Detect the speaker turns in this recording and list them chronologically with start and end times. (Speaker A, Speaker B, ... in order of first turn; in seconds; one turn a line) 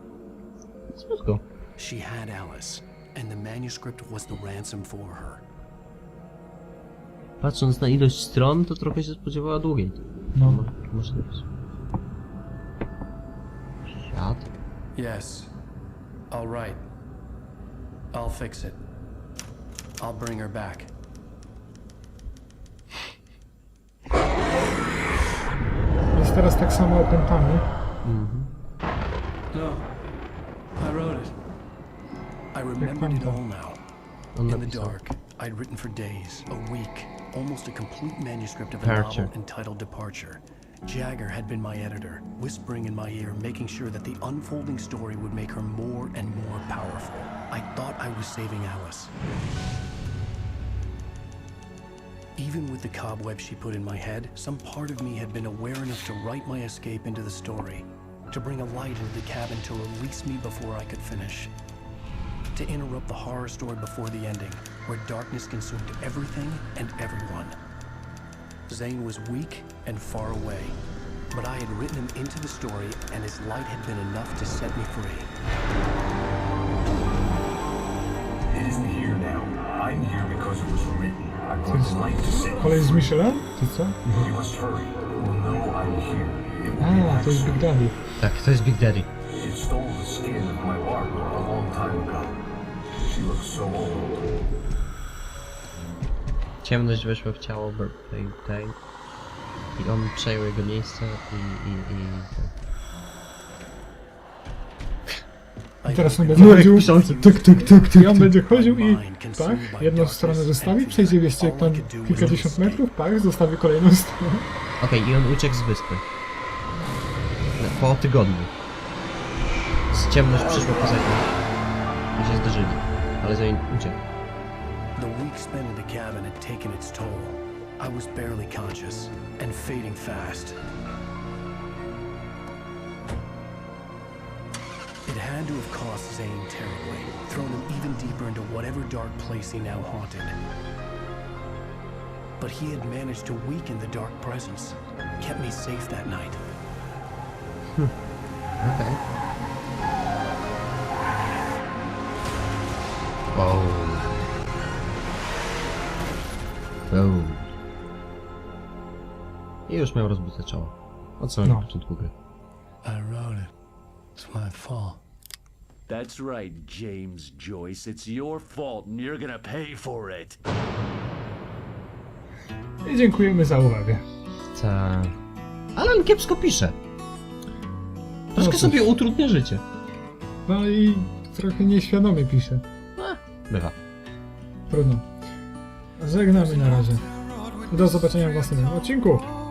Speaker A: 0.9-1.4
Speaker B: 1.8-5.4
Speaker A: 7.4-11.4
Speaker C: 10.3-10.7
Speaker A: 14.0-14.5
Speaker B: 14.9-15.5
Speaker B: 16.3-16.8
Speaker B: 18.1-18.8
Speaker B: 20.0-20.9
Speaker C: 26.1-27.7
Speaker A: 28.0-28.5
Speaker B: 29.5-29.8
Speaker B: 30.8-31.3
Speaker B: 32.5-33.8
Speaker C: 32.8-33.4
Speaker A: 34.4-35.0
Speaker B: 34.5-49.1
Speaker A: 38.8-39.3
Speaker B: 52.4-61.5
Speaker B: 62.5-67.6
Speaker B: 68.7-70.8
Speaker B: 71.3-75.3
Speaker D: 78.5-83.1
Speaker C: 81.7-84.0
Speaker D: 84.1-87.7
Speaker C: 86.8-88.0
Speaker A: 88.2-89.1
Speaker D: 89.2-92.4
Speaker D: 93.0-94.3
Speaker A: 96.6-98.8
Speaker A: 99.8-102.5
Speaker B: 105.8-112.8
Speaker C: 105.9-114.5
Speaker A: 106.3-108.1
Speaker A: 114.8-116.0
Speaker A: 117.6-118.5
Speaker A: 119.9-121.3
Speaker D: 120.5-120.8
Speaker A: 122.2-124.0
Speaker B: 125.0-130.6
Speaker B: 135.1-140.4
Speaker B: 142.4-146.4
Speaker A: 148.6-149.0
Speaker A: 153.3-154.1
Speaker A: 156.9-157.5
Speaker A: 159.7-162.1
Speaker B: 162.8-163.5
Speaker B: 164.2-165.0
Speaker E: 165.9-170.4
Speaker C: 172.8-174.0
Speaker A: 174.5-175.2
Speaker A: 175.8-176.8
Speaker A: 178.3-179.6
Speaker C: 178.4-178.9
Speaker C: 180.5-182.6
Speaker A: 183.0-183.8
Speaker C: 184.7-185.2
Speaker C: 186.0-187.1
Speaker C: 187.7-189.3